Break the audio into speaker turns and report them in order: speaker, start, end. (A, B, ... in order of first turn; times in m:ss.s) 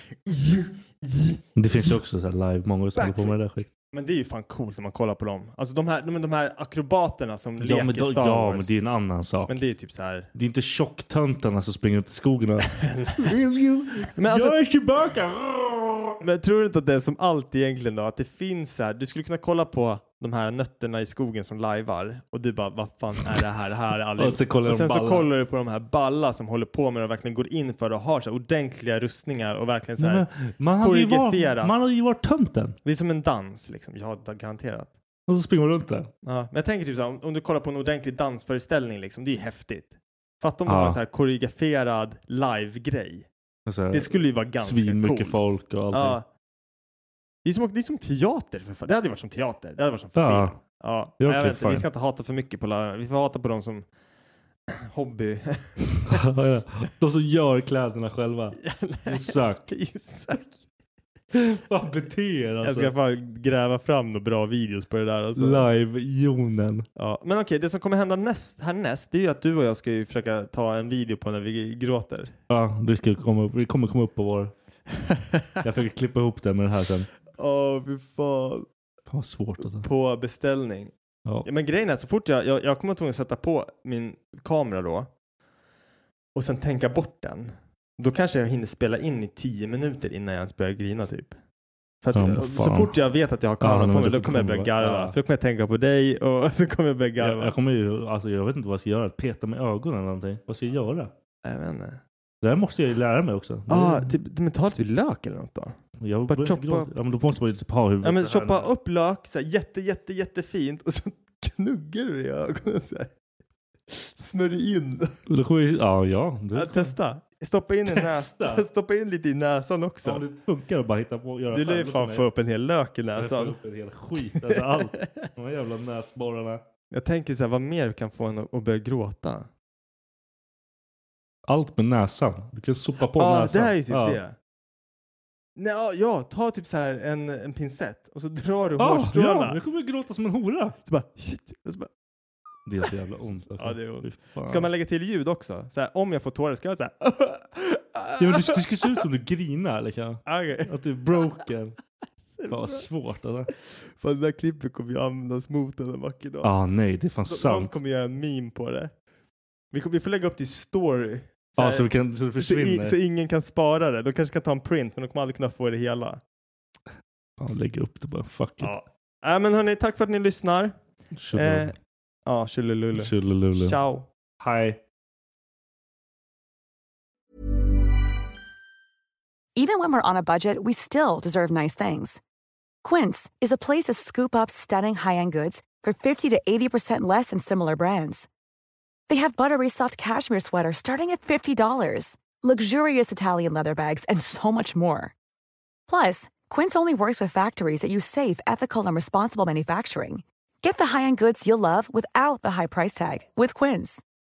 0:00.2-0:02.0 A
0:01.6-0:03.7 B
0:03.0-0:03.3 A
0:03.9-0:08.7 A
0:07.6-0:09.6 B
0:09.5-0:10.3 A
0:10.3-0:16.2 B
0:12.8-0:13.3 A
0:14.1-0:14.6 A
0:16.2-0:30.2 A
0:24.2-0:25.3 B
0:30.0-0:32.8 B
0:30.8-0:31.8 A
0:32.8-0:34.9 A
0:35.3-0:36.1 B
0:36.2-0:43.3 A
0:40.6-0:41.0 B
0:43.6-0:46.2 B
0:43.9-0:46.2 A
0:47.4-0:53.8 A
0:50.2-0:50.6 B
0:51.2-0:51.8 B
0:54.8-0:56.2 A
0:56.1-0:59.7 B
0:58.6-1:00.6 A
1:01.3-1:02.9 B
1:02.6-1:05.7 A
1:05.4-1:06.8 B
1:07.0-1:12.3 A
1:12.5-1:14.5 B
1:15.6-1:17.1 B
1:17.4-1:18.7 A
1:19.1-1:19.9 B
1:19.6-1:20.9 A
1:21.4-1:25.1 A
1:26.3-1:31.3 A
1:32.0-1:37.5 A
1:32.1-1:32.9 B
1:33.6-1:35.1 B
1:37.2-1:41.1 B
1:41.4-1:42.0 A
1:42.4-1:44.1 B
1:43.7-1:45.8 A
1:46.0-1:48.7 B
1:46.3-1:46.9 A
1:48.0-1:53.1 A
1:53.9-1:55.1 A
1:55.3-1:56.9 B
1:56.5-2:00.2 A
1:57.9-1:58.6 B
2:00.0-2:02.3 B
2:01.5-2:03.6 A
2:03.2-2:06.6 B
2:04.4-2:05.3 A
2:06.9-2:09.5 A
2:11.5-2:14.2 B
2:13.1-2:14.4 A
2:15.6-2:19.6 A
2:18.8-2:20.8 B
2:20.8-2:21.9 A
2:22.6-2:24.7 B
2:23.6-2:28.5 A
2:28.2-2:31.8 B
2:30.2-2:30.7 A
2:32.3-2:32.8 A
2:32.5-2:33.5 B
2:34.0-2:36.5 A
2:36.4-2:37.7 B
2:37.2-2:38.9 A
2:39.7-2:46.2 A
2:41.6-2:43.0 B
2:47.4-2:48.7 B
2:48.6-2:50.7 A
2:51.2-2:51.7 B
2:51.3-2:51.7 A
2:52.2-2:54.1 A
2:53.0-2:53.8 B
2:54.4-2:54.8 B
2:59.6-3:02.2 C
3:02.8-3:08.3 C
3:09.1-3:15.1 C
3:15.9-3:24.0 C